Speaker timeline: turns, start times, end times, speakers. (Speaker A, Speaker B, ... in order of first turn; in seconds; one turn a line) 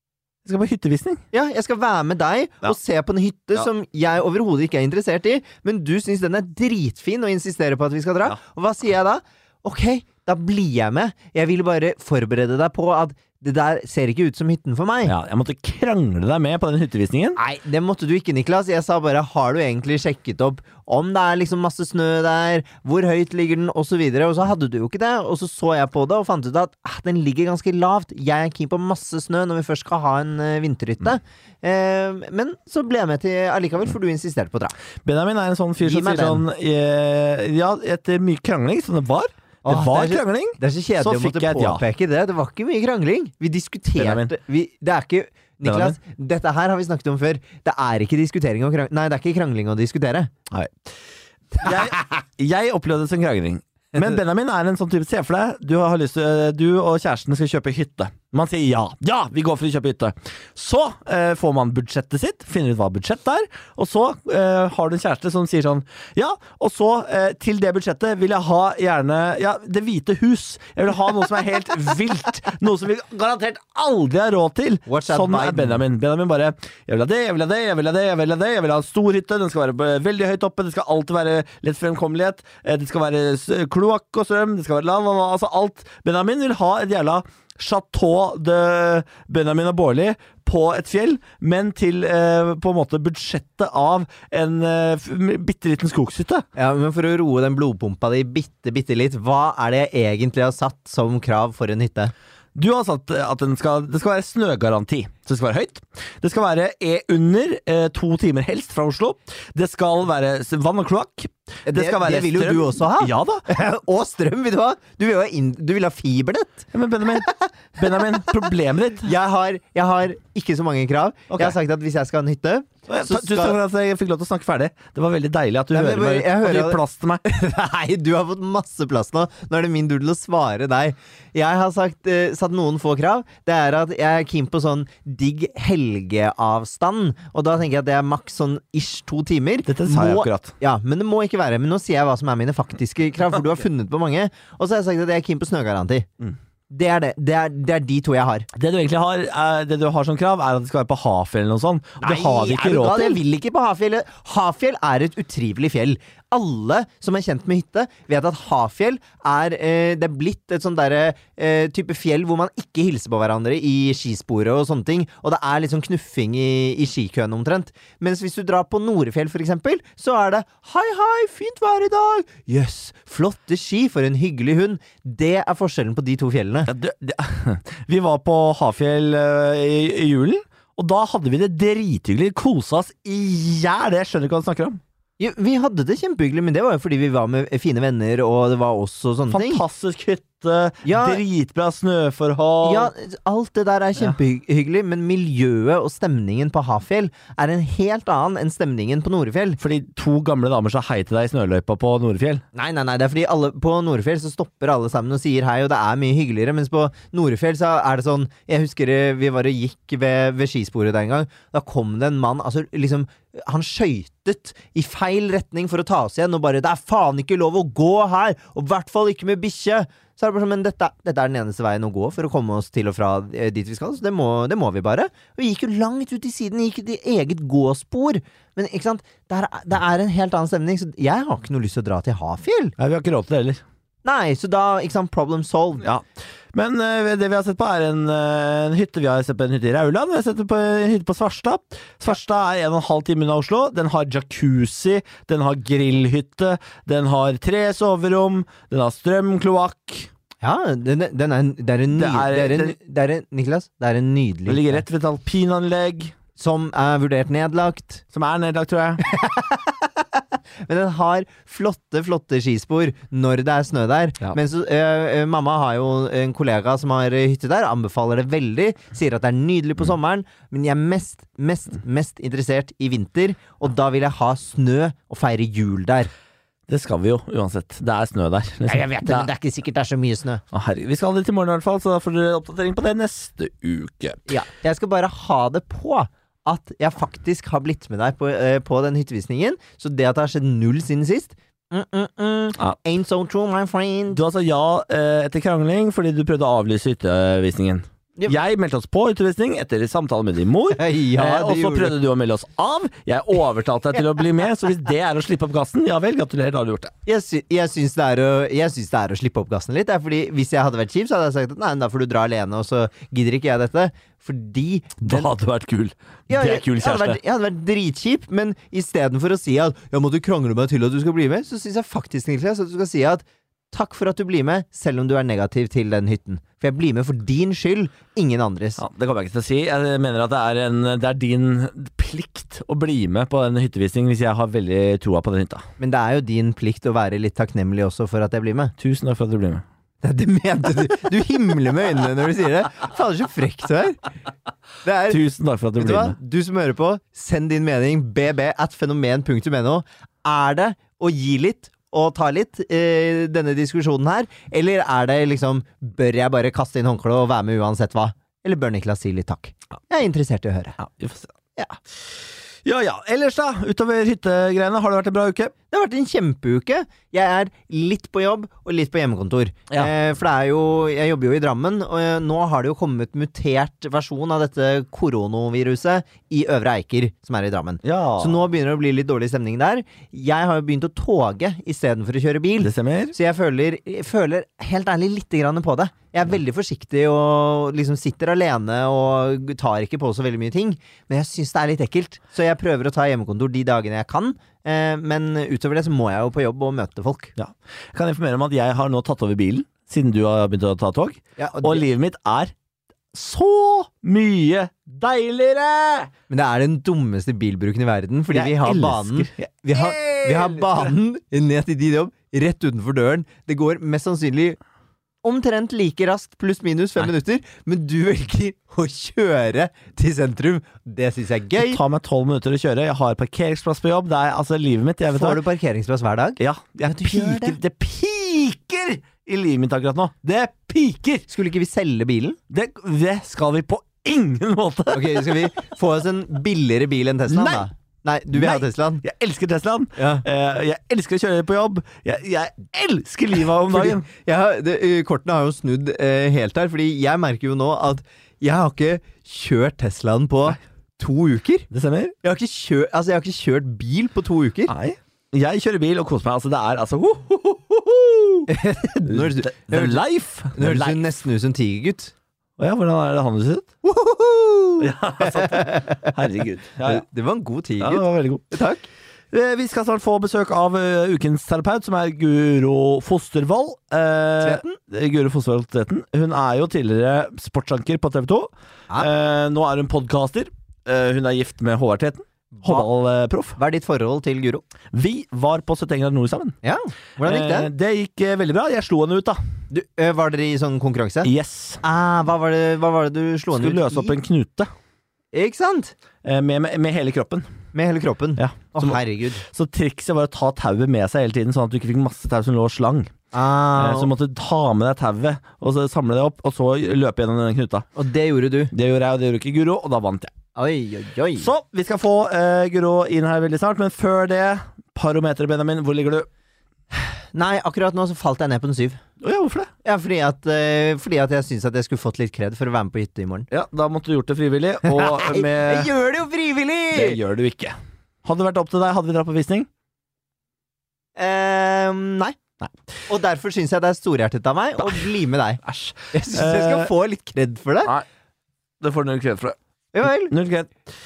Speaker A: 0.5-1.2
Speaker B: 1.3-15.2
Speaker A: 15.1-17.4
Speaker B: 17.4-34.8
Speaker A: 35.0-41.8
Speaker B: 35.8-36.4
Speaker B: 39.6-50.3
Speaker A: 44.0-44.3
Speaker A: 45.6-46.0
Speaker A: 50.5-50.9
Speaker A: 51.6-96.4
Speaker B: 74.9-75.8
Speaker B: 96.6-102.1
Speaker A: 102.5-113.4
Speaker B: 111.7-123.6
Speaker A: 116.7-119.1
Speaker A: 121.3-121.6
Speaker A: 122.9-127.2
Speaker B: 125.7-146.1
Speaker A: 139.7-140.5
Speaker B: 146.7-148.5
Speaker A: 148.5-153.2
Speaker B: 152.0-176.7
Speaker A: 176.7-184.8
Speaker B: 185.2-189.6
Speaker A: 189.3-192.9
Speaker B: 190.8-191.2
Speaker B: 192.6-199.6
Speaker A: 199.6-202.4
Speaker B: 202.5-232.8
Speaker A: 232.8-233.6
Speaker B: 234.0-235.9
Speaker A: 235.8-250.1
Speaker B: 250.4-254.8
Speaker A: 251.9-252.8
Speaker A: 254.5-256.2
Speaker B: 256.4-258.0
Speaker A: 258.1-259.0
Speaker B: 259.0-276.1
Speaker A: 276.7-279.3
Speaker B: 278.7-280.4
Speaker A: 280.5-284.4
Speaker B: 284.3-294.2
Speaker A: 294.1-306.9
Speaker B: 300.7-302.0
Speaker B: 307.1-315.3
Speaker A: 315.0-317.2
Speaker B: 316.3-328.8
Speaker A: 328.8-335.6
Speaker B: 335.8-338.7
Speaker A: 338.8-339.6
Speaker B: 340.0-344.0
Speaker B: 344.8-345.2
Speaker A: 345.1-346.2
Speaker B: 345.8-360.8
Speaker A: 360.8-361.4
Speaker A: 362.6-365.5
Speaker B: 365.7-397.3
Speaker A: 377.8-378.4
Speaker A: 382.6-383.1
Speaker A: 397.4-402.5
Speaker B: 401.4-401.9
Speaker A: 403.1-406.1
Speaker B: 406.3-414.6
Speaker A: 408.3-410.9
Speaker B: 415.2-421.8
Speaker A: 421.6-425.4
Speaker B: 425.1-427.6
Speaker A: 426.4-431.3
Speaker B: 431.3-432.4
Speaker A: 432.5-435.5
Speaker B: 434.9-439.0
Speaker A: 437.3-437.7
Speaker A: 438.3-444.1
Speaker B: 440.0-440.2
Speaker B: 443.7-451.7
Speaker A: 451.7-452.1
Speaker B: 452.2-454.7
Speaker A: 454.7-458.5
Speaker B: 458.5-462.1
Speaker A: 459.1-461.0
Speaker A: 462.6-463.7
Speaker B: 463.8-466.1
Speaker A: 464.8-467.0
Speaker B: 466.8-468.8
Speaker A: 467.8-468.5
Speaker A: 469.3-483.6
Speaker B: 474.4-474.8
Speaker B: 482.6-482.9
Speaker B: 483.6-484.6
Speaker A: 484.9-486.6
Speaker B: 486.6-487.7
Speaker A: 487.2-489.4
Speaker B: 489.7-491.3
Speaker A: 491.2-491.8
Speaker B: 491.8-494.2
Speaker A: 493.5-494.7
Speaker B: 495.3-495.9
Speaker A: 496.2-497.5
Speaker B: 497.7-499.4
Speaker A: 498.4-503.1
Speaker B: 503.3-504.1
Speaker A: 503.8-507.9
Speaker B: 508.0-508.7
Speaker A: 508.7-510.4
Speaker B: 510.6-511.5
Speaker A: 511.4-516.3
Speaker B: 516.9-519.0
Speaker A: 519.2-519.7
Speaker B: 519.8-523.5
Speaker A: 523.5-525.9
Speaker B: 524.9-527.2
Speaker A: 526.9-529.7
Speaker B: 531.2-532.4
Speaker B: 533.1-535.6
Speaker A: 534.8-535.1
Speaker A: 535.6-536.9
Speaker B: 536.1-537.9
Speaker A: 538.8-540.7
Speaker B: 539.9-540.3